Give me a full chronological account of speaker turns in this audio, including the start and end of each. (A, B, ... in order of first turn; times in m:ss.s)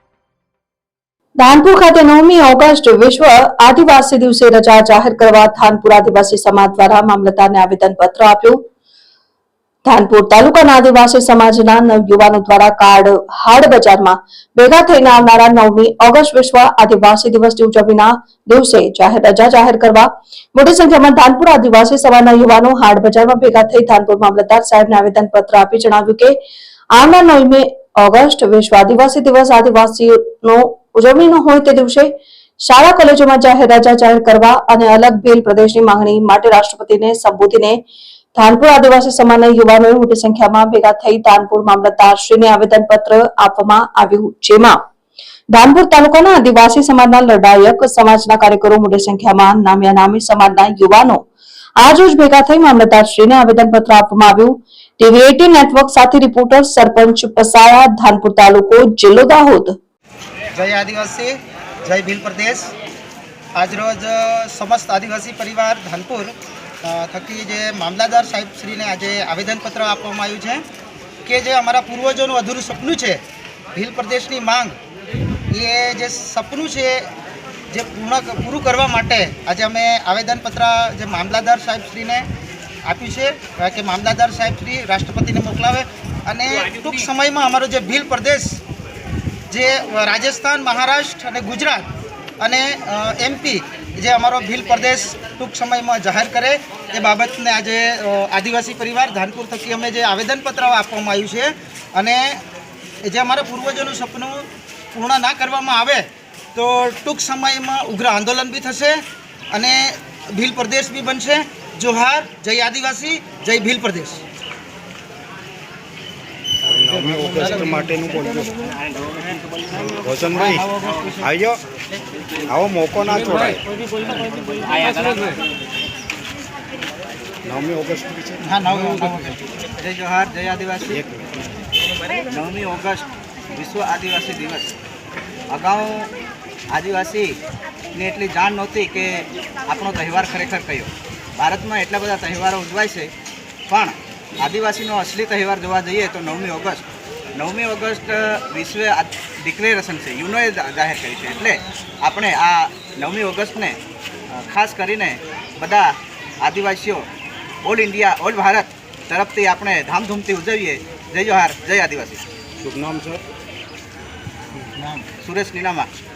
0:01.4-0:08.6 A
0:09.8-0:26.4 A
0:26.9-0:37.8 A
0:38.4-0:44.8 A
0:45.5-0:51.2 A
0:51.8-0:59.8 A
1:00.5-1:02.7 B
1:03.5-1:10.6 B
1:11.2-1:13.2 B
1:13.7-1:14.8 B
1:15.5-1:17.1 B
1:17.7-1:22.3 B
1:22.8-1:28.6 B
1:29.5-1:42.4 B
1:43.0-1:49.0 B
1:49.5-1:54.2 B
1:56.6-1:58.7 C
1:59.7-2:01.6 C
2:02.4-2:03.6 C
2:04.6-2:05.4 D
2:07.4-2:08.4 C
2:08.4-2:09.4 B
2:08.7-2:09.2 D
2:09.8-2:11.0 D
2:10.9-2:11.2 C
2:12.2-2:14.7 D
2:15.5-2:16.1 D
2:16.7-2:17.4 D
2:17.9-2:23.1 D
2:23.7-2:33.8 D
2:34.3-2:37.1 D
2:37.6-2:42.2 D
2:42.6-2:43.2 C
2:44.9-2:45.9 D